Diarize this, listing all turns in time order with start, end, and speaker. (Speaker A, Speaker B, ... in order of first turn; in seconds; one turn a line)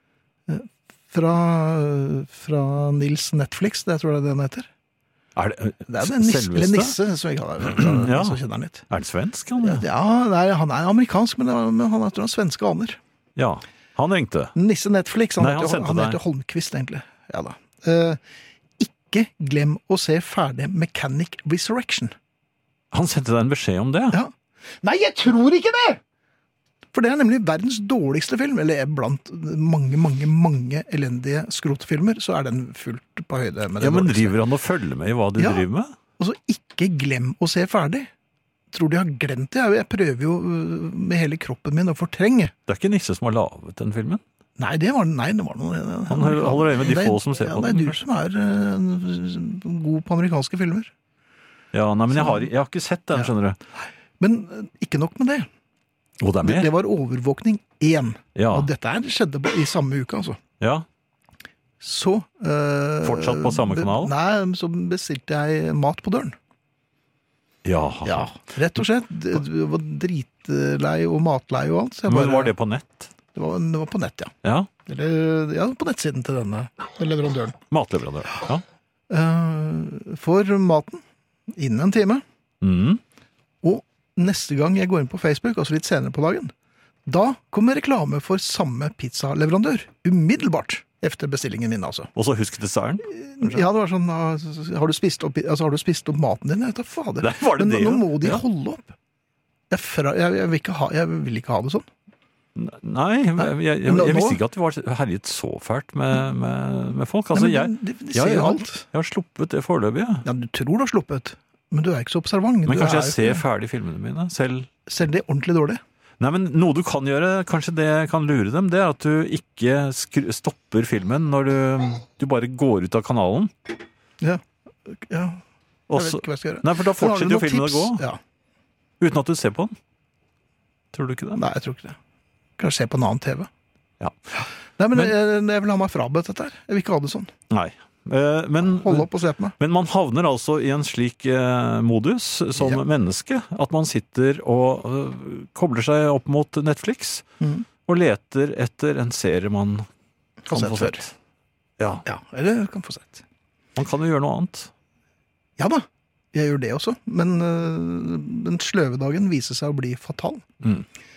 Speaker A: 0.5-4.7
Speaker B: 5.4-7.0
Speaker A: 5.9-8.9
Speaker B: 7.6-8.4
Speaker B: 8.9-9.8
Speaker A: 9.6-13.0
Speaker B: 13.4-14.5
Speaker A: 14.6-18.2
Speaker B: 15.4-16.2
Speaker A: 18.8-22.1
Speaker B: 22.9-24.2
Speaker A: 24.1-26.0
Speaker A: 26.9-34.4
Speaker B: 33.8-36.0
Speaker A: 35.4-35.6
Speaker A: 36.2-38.1
Speaker A: 38.7-42.5
Speaker B: 42.7-44.2
Speaker A: 44.6-50.9
Speaker B: 46.1-48.0
Speaker B: 51.7-53.6
Speaker A: 52.1-52.5
Speaker A: 54.2-55.5
Speaker B: 56.2-56.7
Speaker A: 56.4-60.4
Speaker B: 58.4-58.7
Speaker B: 60.6-60.9
Speaker A: 61.8-66.4
Speaker B: 63.0-64.1
Speaker B: 67.6-68.3
Speaker A: 68.0-72.5
Speaker B: 72.1-73.1
Speaker A: 73.3-74.3
Speaker B: 74.4-74.7
Speaker A: 74.9-77.6
Speaker B: 77.7-78.6
Speaker A: 79.1-82.2
Speaker B: 82.6-83.0
Speaker A: 83.6-86.5
Speaker A: 87.1-92.1
Speaker B: 92.2-93.6
Speaker A: 93.1-98.9
Speaker B: 97.2-98.4
Speaker A: 99.7-101.9
Speaker B: 102.6-110.2
Speaker A: 103.4-104.4
Speaker A: 107.3-108.8
Speaker A: 110.2-113.4
Speaker B: 112.7-114.7
Speaker A: 114.9-115.8
Speaker B: 116.2-123.5
Speaker A: 124.2-125.4
Speaker B: 125.9-128.0
Speaker A: 125.9-128.2
Speaker B: 129.0-129.8
Speaker B: 130.9-131.4
Speaker A: 131.3-132.0
Speaker A: 132.6-133.5
Speaker A: 134.8-137.3
Speaker B: 137.5-147.3
Speaker A: 138.6-139.6
Speaker A: 147.4-147.7
Speaker B: 147.9-149.9
Speaker A: 150.5-151.1
Speaker B: 150.5-151.1
Speaker B: 151.8-152.0
Speaker A: 152.1-153.2
Speaker B: 153.8-154.7
Speaker A: 155.6-160.4
Speaker B: 160.6-160.9